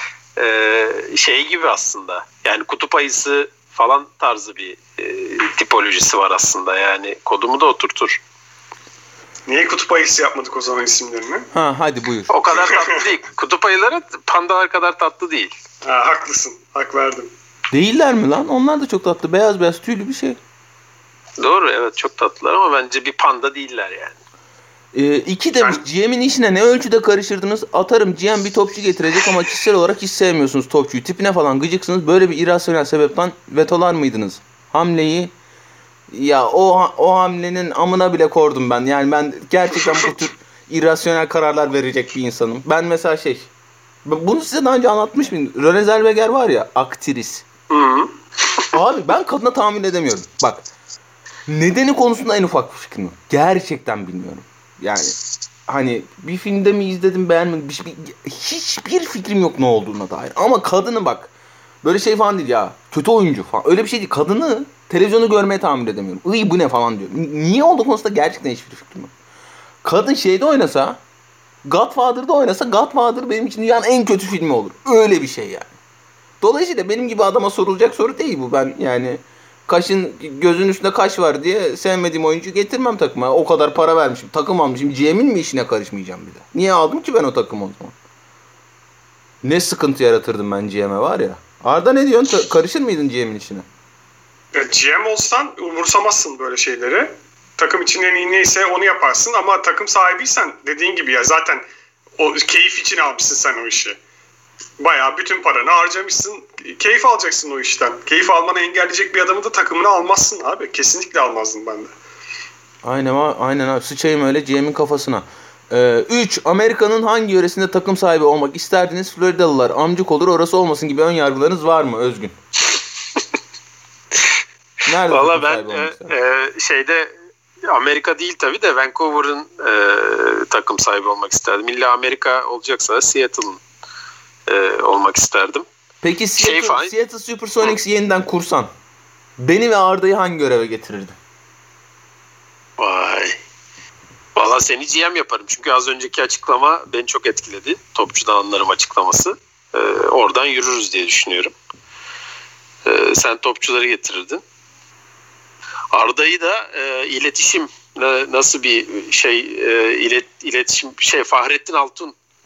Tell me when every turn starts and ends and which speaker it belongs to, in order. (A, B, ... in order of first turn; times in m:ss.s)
0:00.4-0:08.2 A
0:09.5-0:11.5 B
0:11.5-0:12.3 C
0:12.3-0:15.6 A
0:12.5-0:13.0 B
0:15.8-0:17.3 B
0:17.7-0:20.4 C
0:21.4-0:24.2 A
0:24.9-0:35.3 C
0:36.1-0:43.5 C
0:44.0-0:47.5 C
0:47.7-0:48.1 B
0:48.7-0:50.7 C
0:51.5-0:55.2 C
0:55.7-1:01.3 C
1:01.8-1:09.1 C
1:09.8-1:11.0 C
1:11.6-1:15.8 C
1:16.4-1:28.0 C
1:29.4-1:33.7 C
1:34.5-1:41.6 B
1:42.2-1:44.0 B
1:44.8-1:51.9 B
1:52.8-2:02.4 C
2:04.8-2:06.1 C
2:05.1-2:07.1 A
2:07.6-2:13.6 A
2:14.5-2:15.7 A
2:16.0-2:18.7 C
2:16.4-2:16.9 A
2:19.4-2:21.2 C
2:22.8-2:23.4 A
2:24.4-2:31.5 A
2:32.8-2:34.4 A
2:35.9-2:42.2 A